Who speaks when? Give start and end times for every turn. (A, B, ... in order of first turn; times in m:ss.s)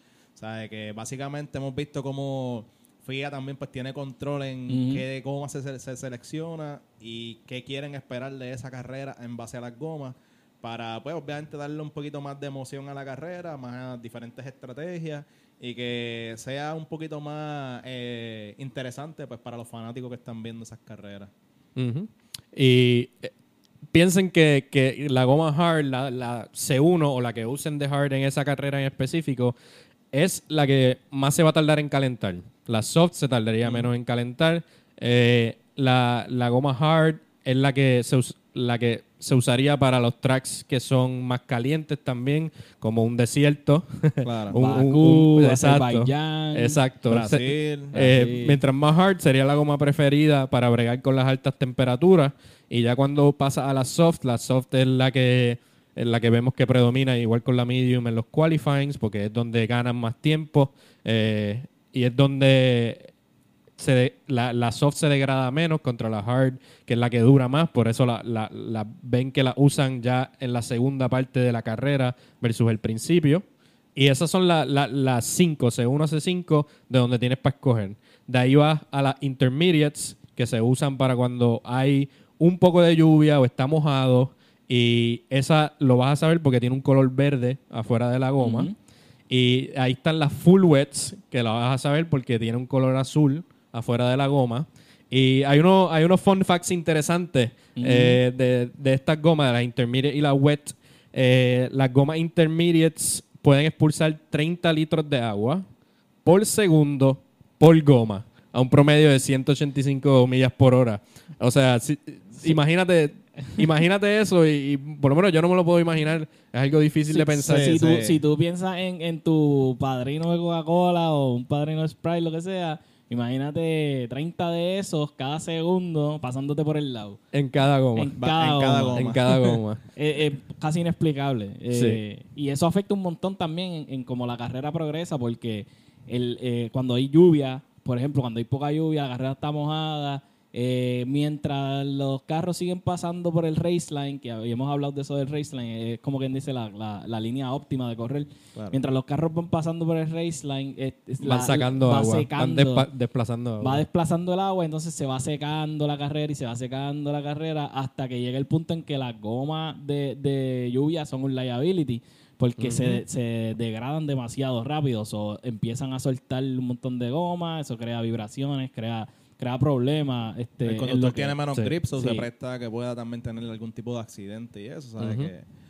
0:00.4-0:21.3 A
0:04.7-0:05.0 B
0:21.8-0:23.3 C
0:23.9-0:29.6 C
0:30.1-1:03.1 C
0:44.2-0:44.5 A
0:44.5-0:46.8 B
0:47.1-0:48.0 A
0:47.9-0:48.6 B
1:03.8-1:13.4 C
1:14.0-1:28.7 C
1:28.4-1:28.7 B
1:29.3-1:45.6 C
1:37.8-1:38.2 B
1:46.2-1:57.8 C
1:57.1-2:07.2 B
1:57.5-1:58.2 A
2:07.3-2:08.1 C
2:08.0-2:32.9 B
2:08.2-2:09.2 A
2:08.9-2:09.8 C
2:11.7-2:12.0 C
2:31.2-2:33.8 C
2:33.6-2:52.2 B
2:42.6-2:43.0 C
2:50.6-2:55.4 A
2:55.0-2:55.3 C